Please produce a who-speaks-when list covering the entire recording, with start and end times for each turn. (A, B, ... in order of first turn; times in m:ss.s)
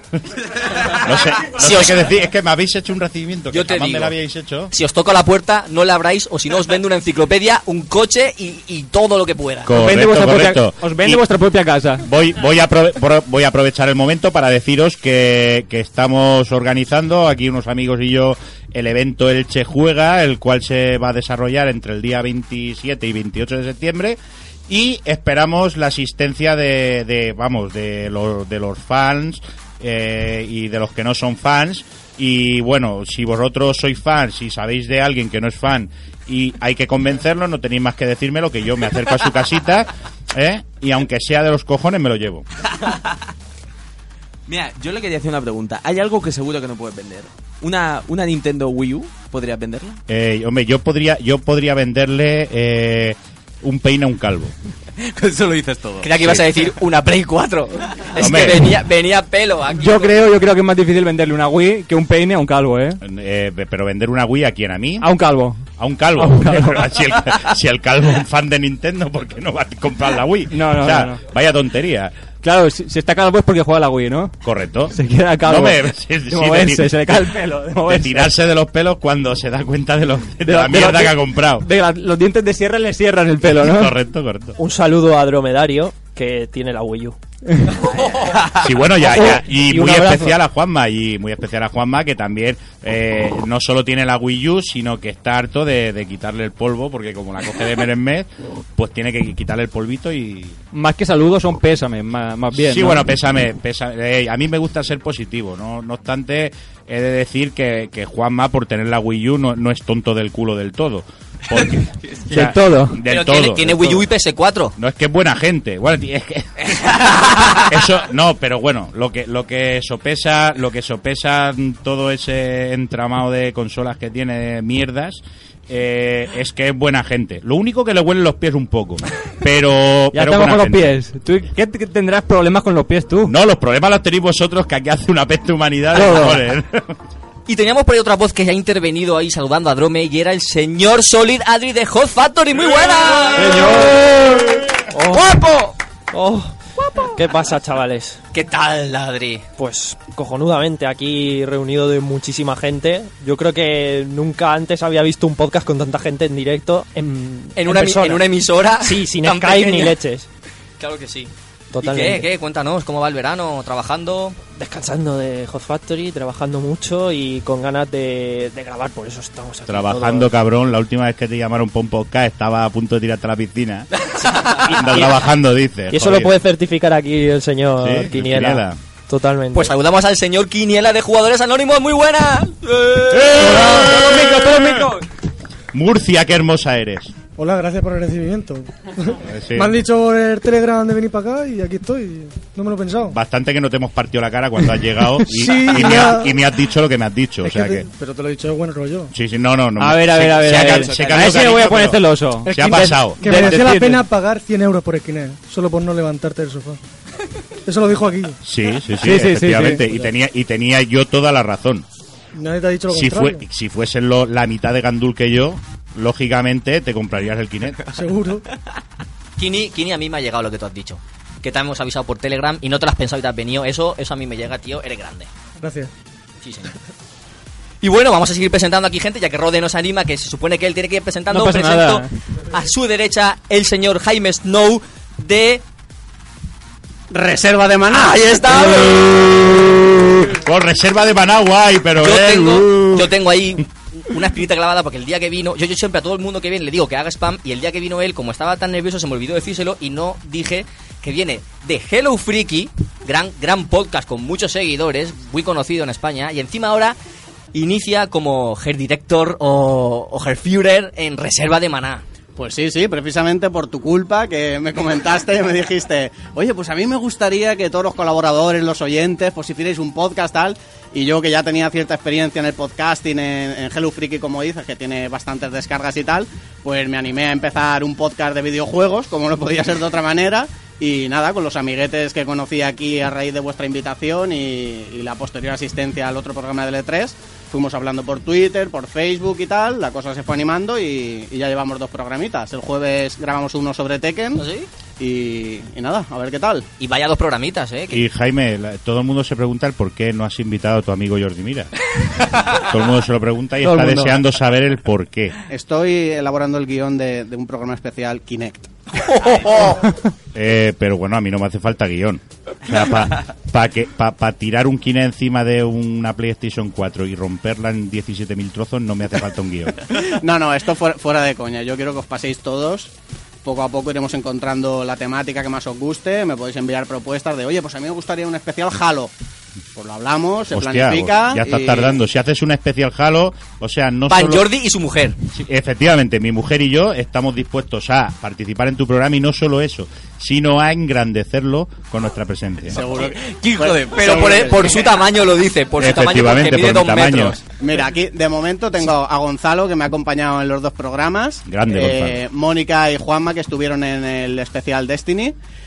0:00.7-0:04.7 A
0:01.6-0:02.0 B
0:03.5-0:04.1 B
0:04.7-0:09.7 B
0:09.6-0:11.2 A
0:09.7-0:12.0 C
0:12.0-0:42.4 A
0:44.5-0:50.0 D
0:50.1-0:54.5 A
0:55.1-0:56.1 D
0:56.0-1:00.1 B
0:58.2-0:58.8 A
0:59.8-1:03.0 C
1:03.0-1:05.1 A
1:05.0-1:05.6 C
1:05.8-1:12.1 A
1:06.2-1:06.8 C
1:10.5-1:11.2 C
1:12.4-1:14.4 C
1:14.4-1:17.2 A
1:14.9-1:18.3 C
1:17.8-1:21.7 A
1:20.4-1:24.0 C
1:23.4-1:24.6 A
1:24.6-1:27.2 E
1:28.6-1:40.6 A
1:29.7-1:30.2 E
1:40.7-1:43.1 C
1:42.5-1:54.1 A
1:52.3-1:53.0 C
1:53.1-1:54.7 B
1:54.8-2:11.0 A
2:10.1-2:13.3 C
2:13.3-2:16.9 A
2:15.9-2:16.4 C
2:17.5-2:23.7 B
2:23.4-2:24.1 E
2:24.9-2:25.6 E
2:25.1-2:25.7 B
2:26.1-2:28.2 E
2:28.3-2:29.4 B
2:29.6-2:40.3 E
2:37.5-2:40.0 B
2:40.8-2:44.4 B
2:41.7-2:42.3 E
2:44.6-2:50.2 E
2:49.7-2:53.9 A
2:54.3-2:55.2 E
2:54.6-2:56.3 A
2:55.9-2:59.7 E
2:57.8-2:58.8 A
2:59.5-3:03.5 B
3:03.1-3:04.7 A
3:03.4-3:04.0 F
3:04.1-3:04.5 C
3:05.7-3:07.1 A
3:07.4-3:13.2 F
3:09.2-3:09.8 A
3:13.1-3:17.9 A
3:15.2-3:16.4 F
3:17.4-3:19.1 F
3:19.1-3:23.5 A
3:19.8-3:24.0 C
3:20.9-3:21.2 D
3:22.5-3:26.8 F
3:27.6-3:28.4 F
3:28.4-3:31.8 A
3:29.0-3:29.8 C
3:32.3-3:33.4 F
3:32.9-3:37.8 A
3:37.9-3:38.4 F
3:39.4-3:45.3 B
3:45.6-3:45.9 F
3:46.4-3:46.7 B
3:47.8-3:55.6 B
3:51.3-3:52.1 C
3:57.1-3:58.8 G
3:57.9-3:59.3 B
4:00.2-4:03.1 A
4:02.0-4:17.0 B
4:17.5-4:22.0 B
4:22.4-4:54.4 G
4:54.4-4:54.7 B
4:55.0-4:56.6 G
4:56.8-4:58.0 B
4:57.9-5:01.7 A
5:02.3-5:05.4 A
5:03.6-5:04.2 C
5:05.5-5:08.7 G
5:10.3-5:19.8 A
5:20.0-5:22.9 G
5:23.4-5:29.1 G
5:29.7-5:31.9 G
5:30.5-5:34.5 A
5:34.1-5:35.2 B
5:35.3-5:42.8 A
5:42.8-5:44.5 G
5:43.3-5:44.2 D
5:43.6-5:47.4 B
5:45.8-5:47.4 A
5:47.5-5:55.3 G
5:51.4-5:52.2 A